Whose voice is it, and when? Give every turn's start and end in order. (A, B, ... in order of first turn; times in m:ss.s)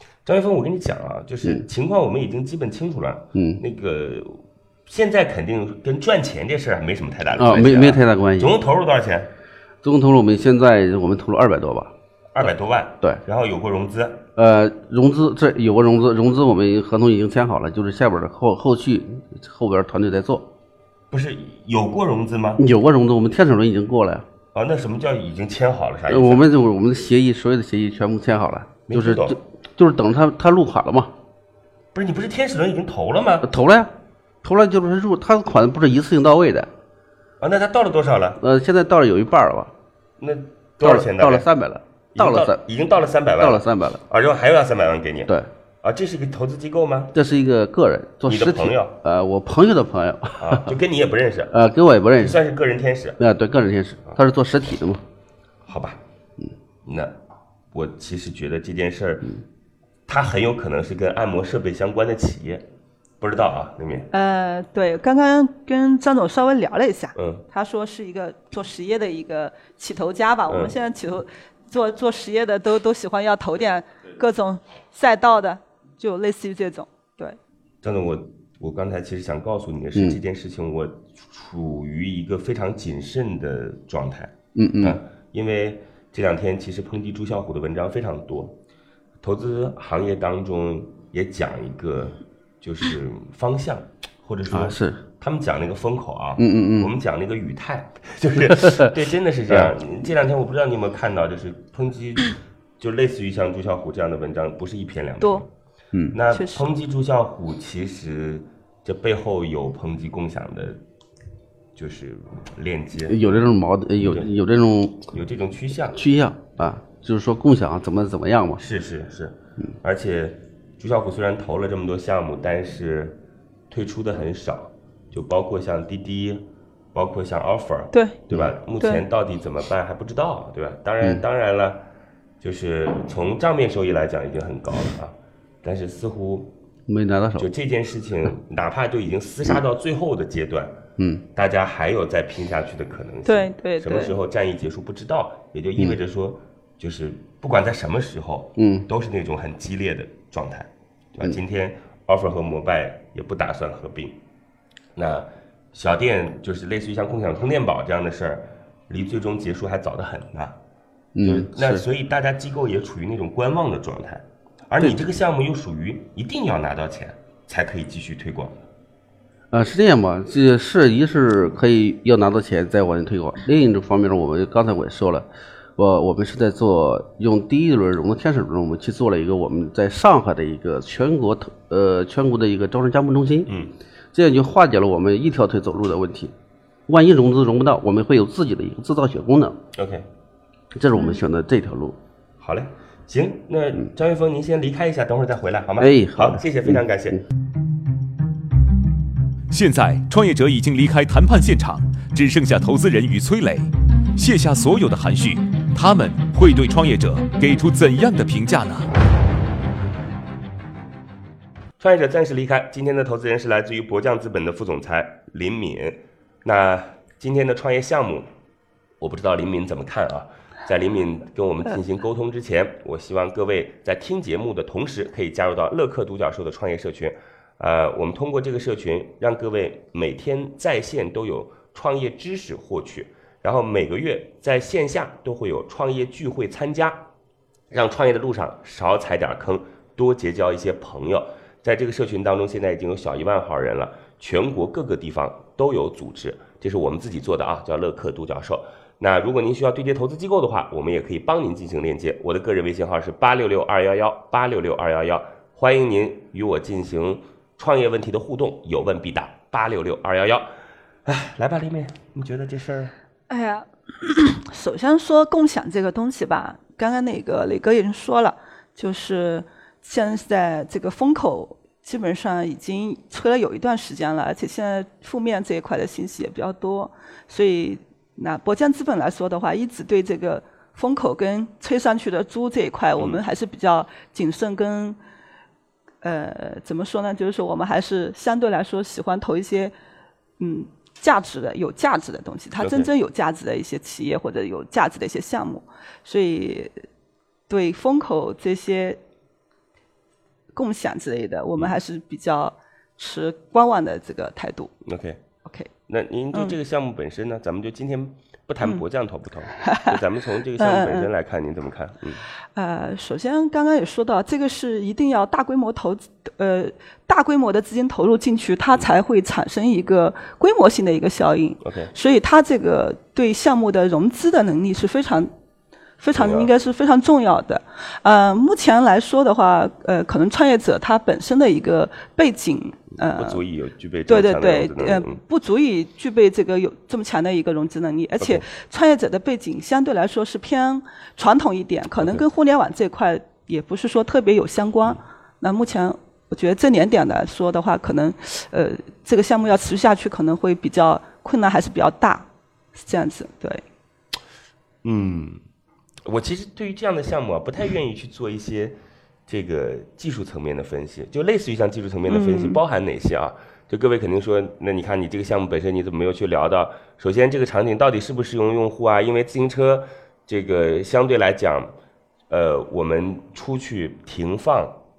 0:00.2-0:09.3 A
0:03.3-0:03.6 B
0:07.3-0:08.6 B
0:09.8-0:11.9 B
0:12.3-0:14.2 A
0:14.4-0:20.5 B
0:21.1-0:22.6 A
0:22.6-0:24.2 B
0:24.5-0:26.4 A
0:26.1-0:31.1 B
0:28.9-0:29.4 A
0:31.9-0:33.5 A
0:33.4-0:36.7 B
0:37.4-0:38.4 A
0:38.4-0:39.7 B
0:40.2-0:41.4 A
0:40.8-0:42.6 B
0:42.1-0:47.1 A
0:43.4-0:44.0 B
0:47.1-0:50.7 B
0:48.2-0:48.9 A
0:50.4-0:51.6 A
0:51.5-0:52.4 B
0:52.2-0:53.2 A
0:53.2-0:55.0 B
0:55.6-0:56.0 A
0:56.8-0:57.1 A
0:57.7-0:59.3 A
1:00.1-1:02.6 A
1:03.2-1:04.1 A
1:04.1-1:17.4 C
1:07.2-1:07.4 A
1:10.5-1:10.7 A
1:17.8-1:28.5 A
1:19.9-1:20.2 B
1:24.5-1:25.0 B
1:29.2-1:45.5 A
1:34.5-1:35.0 B
1:36.4-1:36.9 B
1:38.5-1:38.8 B
1:46.1-1:50.8 A
1:46.3-1:46.6 C
1:51.8-1:53.3 A
1:53.1-1:55.1 B
1:54.0-1:54.3 A
1:55.1-1:56.0 A
1:55.9-1:58.6 B
1:58.6-2:03.2 A
2:03.7-2:11.8 A
2:12.4-2:16.5 A
2:16.9-2:17.5 B
2:17.4-2:20.8 A
2:21.0-2:21.2 B
2:21.3-2:34.2 A
2:23.2-2:24.1 C
2:28.6-2:28.8 B
2:35.0-2:40.6 A
2:41.1-2:41.8 B
2:41.2-2:48.6 A
2:49.5-3:03.5 B
3:03.5-3:03.7 A
3:04.1-3:06.3 B
3:06.9-3:09.6 B
3:09.7-3:10.0 A
3:10.7-3:12.0 B
3:12.4-3:17.2 A
3:15.8-3:17.2 B
3:19.5-3:28.9 D
3:31.8-3:38.3 A
3:39.0-3:57.0 A
3:57.7-4:20.5 A
4:21.0-4:22.9 A
4:23.3-4:45.0 C
4:46.0-4:49.7 C
4:50.4-4:56.8 C
4:52.6-4:52.9 A
4:57.5-4:59.0 C
5:00.5-5:04.7 C
5:04.8-5:05.2 A
5:05.9-5:12.2 A
5:09.6-5:10.0 C
5:10.6-5:11.1 C
5:12.5-5:25.3 C
5:21.6-5:21.9 A
5:26.0-5:33.4 C
5:26.1-5:26.5 A
5:33.1-5:35.2 A
5:34.1-5:53.6 C
5:54.8-5:55.4 A
5:56.0-6:11.7 A
6:02.1-6:02.6 C
6:12.3-6:14.8 A